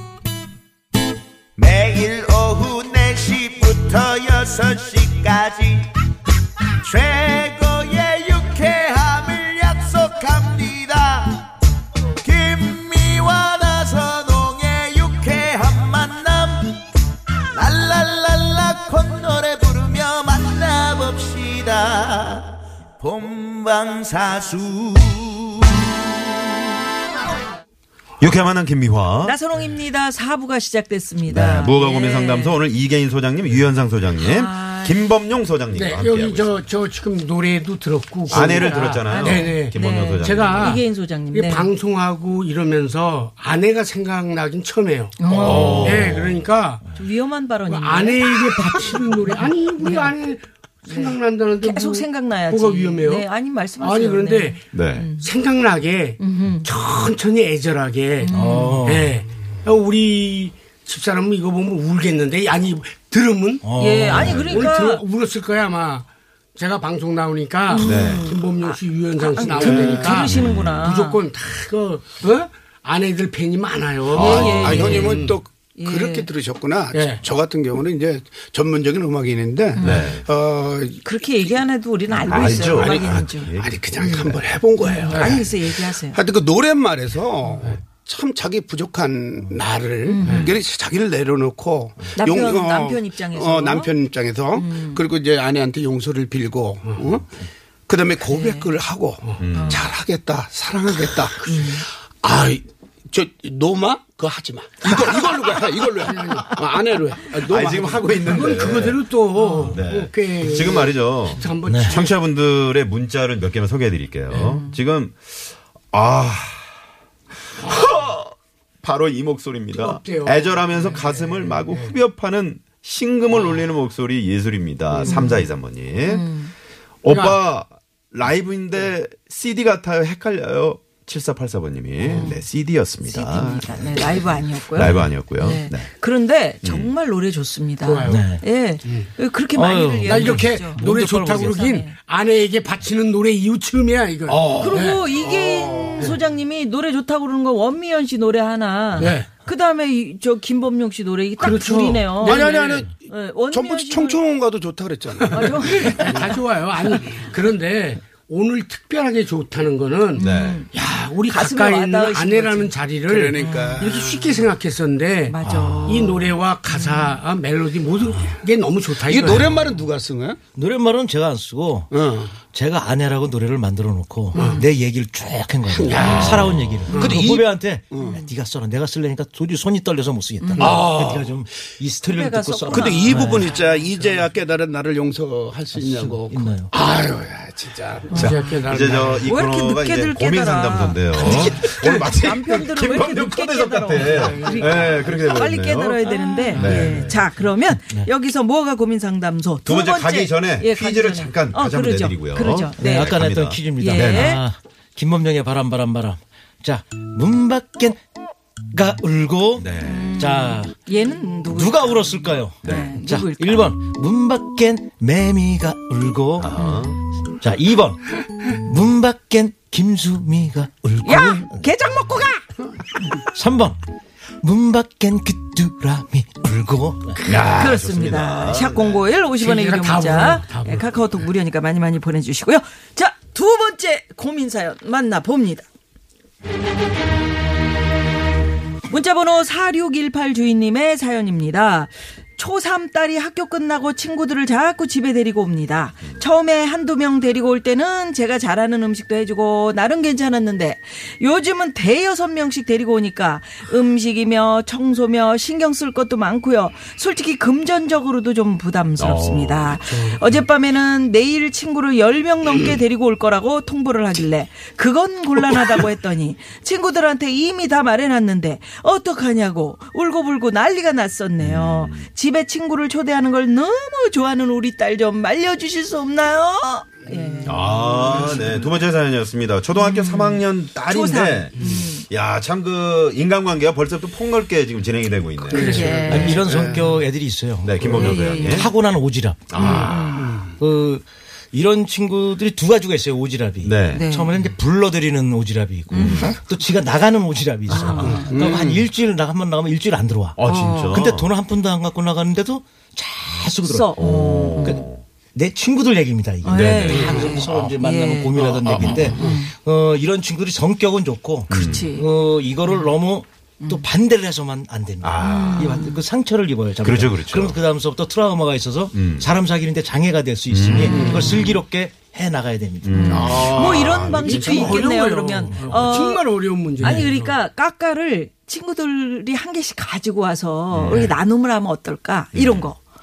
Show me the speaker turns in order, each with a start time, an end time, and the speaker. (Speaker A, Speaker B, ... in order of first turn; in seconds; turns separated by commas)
Speaker A: 1.6-5.8, Speaker A: 6.8-11.4, Speaker A: 12.2-16.7, Speaker A: 17.5-25.8, Speaker B: 28.2-29.3, Speaker C: 29.2-32.6, Speaker B: 31.2-36.6, Speaker C: 34.2-35.1, Speaker D: 35.8-38.7, Speaker E: 38.2-39.5, Speaker B: 38.3-40.8, Speaker C: 39.0-41.7, Speaker D: 39.3-40.8, Speaker D: 41.3-46.8, Speaker C: 45.2-46.1, Speaker B: 45.3-46.4, Speaker E: 45.4-46.2, Speaker C: 46.9-50.1, Speaker D: 47.7-50.4, Speaker C: 50.8-55.3, Speaker D: 51.0-53.2, Speaker D: 53.8-54.6, Speaker B: 54.7-55.1, Speaker D: 55.2-58.3, Speaker C: 56.2-56.7, Speaker C: 58.2-58.8, Speaker F: 58.3-59.2, Speaker D: 58.8-63.6, Speaker F: 63.6-64.4, Speaker C: 63.8-65.0, Speaker B: 64.1-64.7, Speaker D: 64.4-66.0, Speaker D: 66.5-70.3, Speaker C: 67.7-68.4, Speaker B: 67.8-68.3, Speaker E: 67.9-68.3, Speaker C: 69.2-71.2, Speaker E: 69.4-70.3, Speaker B: 69.6-70.8, Speaker D: 70.8-75.4, Speaker E: 74.0-81.0, Speaker C: 74.1-76.3, Speaker B: 74.2-74.8, Speaker D: 76.9-77.2, Speaker C: 79.8-80.1, Speaker B: 79.8-80.2, Speaker C: 81.0-83.5, Speaker B: 82.2-84.4, Speaker E: 82.8-83.1, Speaker E: 83.6-97.3, Speaker C: 84.8-86.2, Speaker D: 85.1-85.4, Speaker C: 90.0-90.5, Speaker C: 92.2-95.0, Speaker E: 97.9-108.9, Speaker C: 98.2-98.8, Speaker B: 99.4-99.9, Speaker C: 99.5-99.9, Speaker D: 106.1-106.4, Speaker B: 107.4-109.0, Speaker D: 108.3-112.0, Speaker C: 109.3-109.8, Speaker B: 109.7-115.3, Speaker E: 110.4-111.8, Speaker F: 111.7-112.0, Speaker C: 114.3-114.7, Speaker B: 115.9-116.7, Speaker B: 117.6-126.3, Speaker D: 119.8-121.9, Speaker C: 125.0-125.5, Speaker C: 126.0-126.5, Speaker B: 127.0-134.2, Speaker C: 132.0-132.4, Speaker C: 133.0-141.9, Speaker B: 134.7-135.9, Speaker B: 136.6-136.9, Speaker D: 137.8-138.2, Speaker F: 138.0-138.4, Speaker F: 139.5-141.6, Speaker D: 140.1-145.1, Speaker E: 144.2-145.9, Speaker C: 144.6-154.2, Speaker D: 149.0-149.3, Speaker D: 151.4-152.8, Speaker E: 151.4-152.9, Speaker E: 153.5-157.2, Speaker D: 153.7-154.1, Speaker D: 155.2-169.4, Speaker C: 155.3-156.3, Speaker C: 160.2-160.7, Speaker B: 160.2-160.6, Speaker C: 161.3-162.7, Speaker E: 163.1-164.5, Speaker C: 163.4-163.7, Speaker C: 165.3-166.2, Speaker F: 165.4-166.3, Speaker C: 166.7-167.2, Speaker E: 168.9-170.4, Speaker F: 169.2-169.6, Speaker F: 170.5-183.6, Speaker E: 171.9-172.3, Speaker C: 174.3-174.7, Speaker E: 175.7-178.1, Speaker D: 175.9-176.2, Speaker B: 176.3-176.9, Speaker C: 176.9-177.2, Speaker D: 176.9-177.2, Speaker C: 178.0-178.3, Speaker C: 180.4-180.9, Speaker E: 180.6-181.2, Speaker C: 182.1-184.0, Speaker E: 182.7-189.1, Speaker F: 185.7-186.7, Speaker C: 188.1-188.6, Speaker B: 188.1-196.0, Speaker D: 188.3-189.2, Speaker C: 189.2-203.1, Speaker F: 191.3-191.7, Speaker D: 194.3-195.1, Speaker F: 196.1-196.8, Speaker D: 196.5-196.9, Speaker B: 196.5-197.2, Speaker B: 199.7-204.3, Speaker F: 202.8-208.0, Speaker C: 203.8-204.4, Speaker F: 208.7-210.8, Speaker B: 209.6-210.1, Speaker C: 209.8-213.7, Speaker F: 211.5-216.5, Speaker B: 212.6-212.9, Speaker B: 216.4-217.0, Speaker C: 216.6-216.9, Speaker F: 217.4-221.6, Speaker C: 221.0-222.5, Speaker F: 223.2-223.8, Speaker F: 224.4-227.2, Speaker B: 227.2-229.0, Speaker C: 227.3-235.6, Speaker D: 229.4-230.8, Speaker C: 238.9-278.4, Speaker B: 259.0-259.8, Speaker B: 271.4-272.1, Speaker B: 277.4-286.4, Speaker C: 279.7-282.0, Speaker C: 285.5-286.5, Speaker E: 285.5-286.9, Speaker D: 285.6-285.8, Speaker F: 286.0-300.4, Speaker B: 287.6-288.7, Speaker C: 287.9-288.7, Speaker B: 289.5-290.2, Speaker C: 289.6-290.4, Speaker B: 293.6-294.1, Speaker C: 293.9-294.3, Speaker C: 295.9-296.3, Speaker B: 295.9-296.4, Speaker C: 297.7-298.3, Speaker E: 298.0-298.9, Speaker B: 300.4-301.3, Speaker C: 300.4-301.0, Speaker F: 300.9-304.0, Speaker C: 303.6-304.8, Speaker B: 304.0-305.0, Speaker F: 304.6-323.6, Speaker C: 306.4-309.5, Speaker B: 306.4-307.3, Speaker E: 307.0-307.3, Speaker E: 308.5-309.4, Speaker B: 311.5-311.9, Speaker C: 311.5-312.1, Speaker C: 313.6-313.9, Speaker B: 315.0-315.8, Speaker C: 315.2-316.0, Speaker B: 316.8-317.6, Speaker B: 318.9-319.3, Speaker B: 320.5-321.0, Speaker C: 320.8-321.6, Speaker E: 320.9-321.4, Speaker B: 322.8-324.2, Speaker C: 322.9-326.2, Speaker E: 323.1-324.8, Speaker D: 324.2-327.3, Speaker F: 325.5-325.8, Speaker C: 326.8-332.8, Speaker F: 326.8-327.1, Speaker B: 330.7-331.1, Speaker B: 332.3-332.7